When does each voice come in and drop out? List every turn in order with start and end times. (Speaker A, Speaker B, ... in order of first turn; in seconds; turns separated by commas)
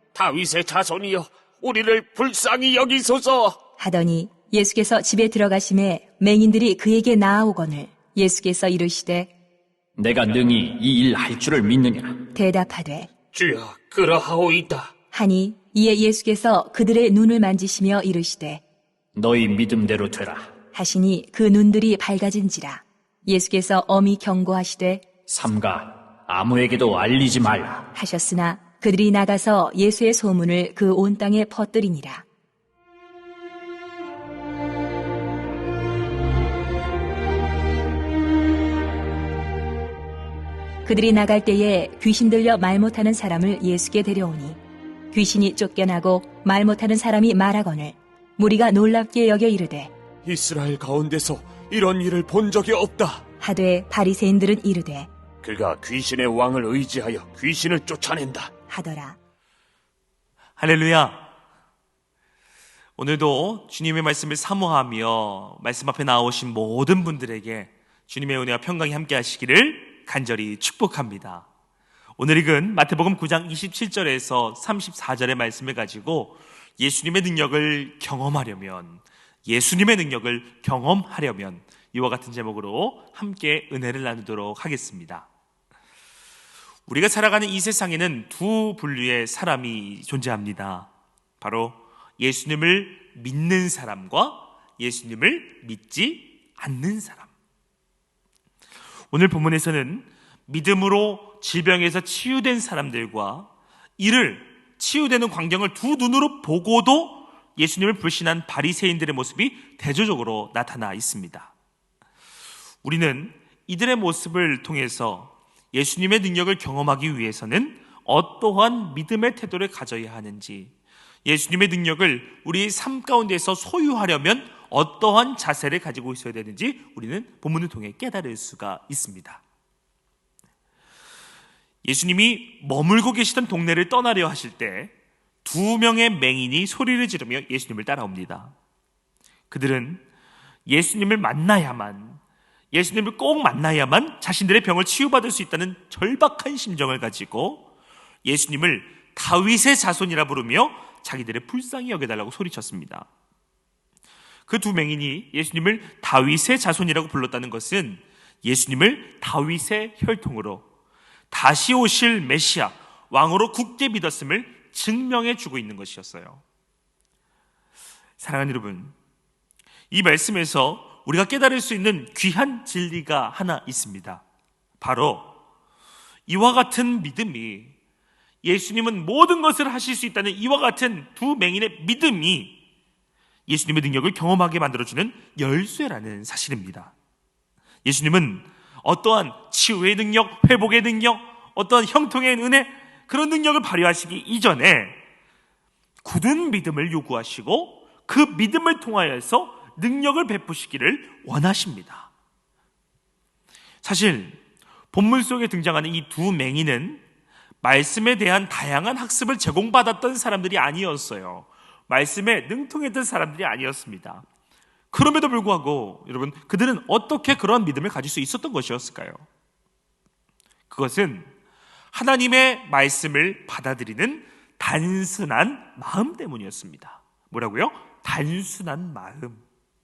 Speaker A: 0.1-3.6, Speaker B: 3.8-9.3, Speaker C: 9.9-12.2, Speaker B: 12.3-13.1, Speaker A: 13.3-14.9, Speaker B: 15.1-18.6, Speaker C: 19.1-20.5, Speaker B: 20.7-25.1, Speaker C: 25.3-27.9, Speaker B: 27.9-32.2, Speaker B: 40.8-44.6, Speaker B: 45.1-49.9, Speaker A: 50.2-53.2, Speaker B: 53.4-55.1, Speaker A: 55.4-58.5, Speaker B: 58.7-59.2, Speaker D: 60.6-61.3, Speaker D: 63.0-71.5, Speaker D: 72.2-85.3, Speaker D: 86.9-97.3, Speaker D: 99.1-111.5, Speaker D: 112.8-120.7, Speaker D: 121.2-129.4, Speaker D: 131.8-138.5, Speaker D: 139.5-140.0, Speaker D: 140.7-142.2, Speaker D: 142.7-147.7, Speaker D: 148.2-153.1, Speaker D: 154.5-160.7, Speaker D: 161.3-166.4, Speaker D: 168.2-168.9, Speaker D: 169.9-174.2, Speaker D: 174.8-175.4, Speaker D: 176.3-177.7, Speaker D: 178.4-182.6, Speaker D: 183.5-186.9, Speaker D: 187.8-195.0, Speaker D: 196.0-202.1, Speaker D: 203.8-204.4, Speaker D: 204.9-207.0, Speaker D: 207.6-214.2, Speaker D: 214.9-219.2, Speaker D: 220.7-221.3, Speaker D: 221.9-229.4